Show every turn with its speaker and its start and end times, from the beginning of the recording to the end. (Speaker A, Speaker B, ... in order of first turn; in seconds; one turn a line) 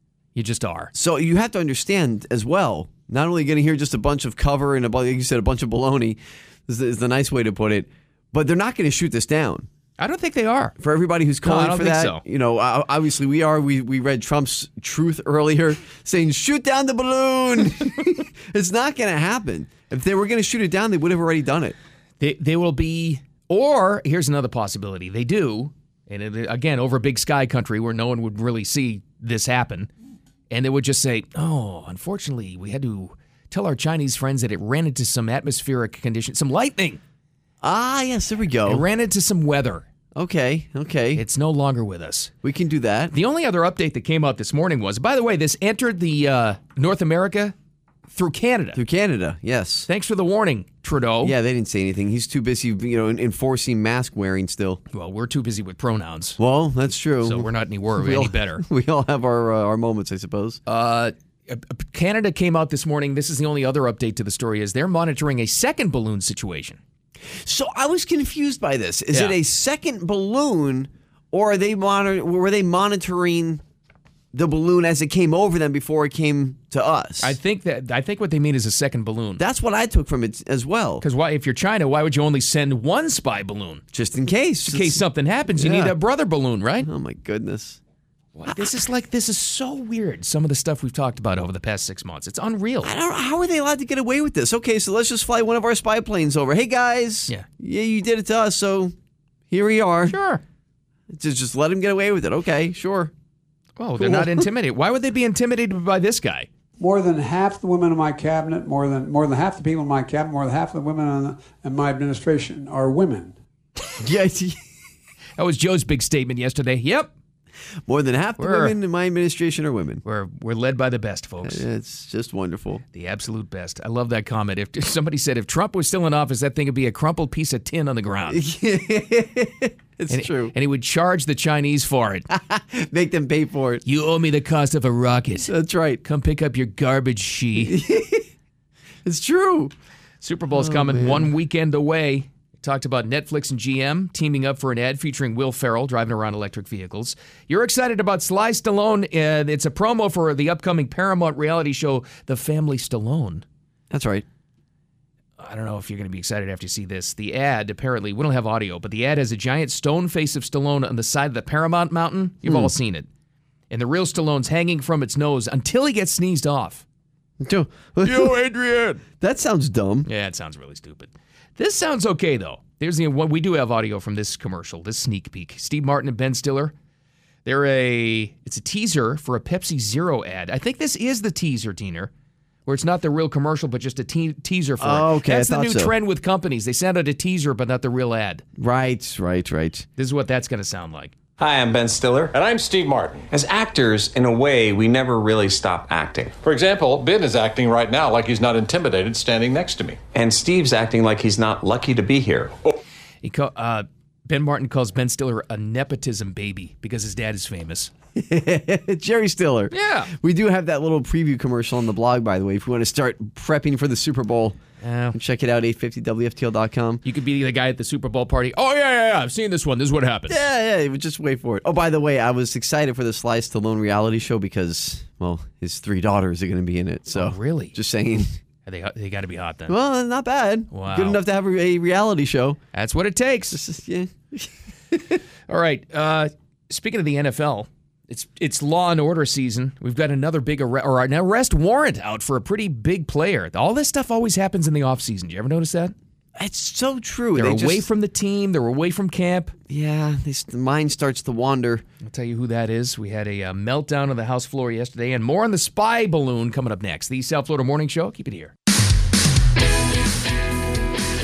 Speaker A: 0.3-0.9
Speaker B: 0.9-9.7
Speaker A: 10.0-10.7
Speaker B: 10.8-21.8
Speaker A: 11.4-12.2
Speaker A: 22.2-29.9
Speaker A: 30.5-37.0
Speaker B: 37.6-38.8
Speaker A: 38.6-39.9
Speaker B: 40.1-41.2
Speaker A: 41.1-42.3
Speaker B: 42.4-43.1
Speaker A: 43.1-47.5
Speaker A: 48.1-48.8
Speaker B: 48.7-49.9
Speaker A: 49.9-51.3
Speaker B: 51.2-54.8
Speaker A: 54.9-56.4
Speaker B: 56.4-60.6
Speaker A: 57.2-58.6
Speaker A: 60.6-66.8
Speaker B: 67.4-73.6
Speaker A: 69.1-69.4
Speaker B: 74.3-77.4
Speaker A: 77.2-79.4
Speaker B: 79.4-81.0
Speaker A: 81.0-83.8
Speaker B: 83.9-85.0
Speaker A: 84.7-86.9
Speaker B: 85.5-85.9
Speaker B: 86.8-87.8
Speaker A: 88.3-92.9
Speaker B: 92.8-98.9
Speaker B: 99.5-100.2
Speaker A: 100.1-100.4
Speaker B: 101.1-103.1
Speaker A: 103.8-106.5
Speaker B: 104.0-104.5
Speaker C: 106.8-113.3
Speaker B: 114.0-114.6
Speaker A: 115.4-117.1
Speaker B: 117.8-120.0
Speaker A: 118.4-118.8
Speaker A: 120.0-121.6
Speaker B: 121.4-122.8
Speaker A: 122.9-128.4
Speaker B: 128.3-130.5
Speaker A: 130.1-132.3
Speaker B: 132.3-133.8
Speaker A: 133.8-135.5
Speaker B: 135.4-136.0
Speaker A: 136.0-137.8
Speaker B: 137.6-138.3
Speaker B: 139.0-139.7
Speaker A: 140.2-153.4
Speaker B: 140.5-141.3
Speaker B: 153.9-154.2
Speaker A: 155.4-163.1
Speaker B: 162.4-162.7
Speaker A: 163.7-166.8
Speaker B: 167.4-168.4
Speaker A: 168.0-169.0
Speaker B: 169.2-170.1
Speaker A: 170.1-176.7
Speaker A: 177.4-182.1
Speaker A: 182.7-188.4
Speaker B: 184.8-185.9
Speaker B: 188.6-189.8
Speaker A: 190.0-191.1
Speaker D: 191.4-192.3
Speaker E: 192.3-193.3
Speaker D: 193.3-196.3
Speaker E: 196.4-200.0
Speaker D: 200.1-202.6
Speaker A: 203.2-207.9
Speaker B: 208.1-214.6
Speaker A: 209.7-210.1
Speaker A: 214.8-215.2
Speaker B: 215.1-217.0
Speaker A: 217.0-220.4
Speaker B: 220.3-228.3
Speaker A: 227.1-227.7
Speaker A: 228.7-229.7
Speaker B: 229.7-232.6
Speaker A: 230.7-231.2
Speaker A: 232.7-233.6
Speaker B: 233.5-235.2
Speaker A: 235.5-245.9
Speaker B: 246.4-247.9
Speaker A: 247.3-249.5
Speaker B: 249.7-251.8
Speaker A: 252.0-258.5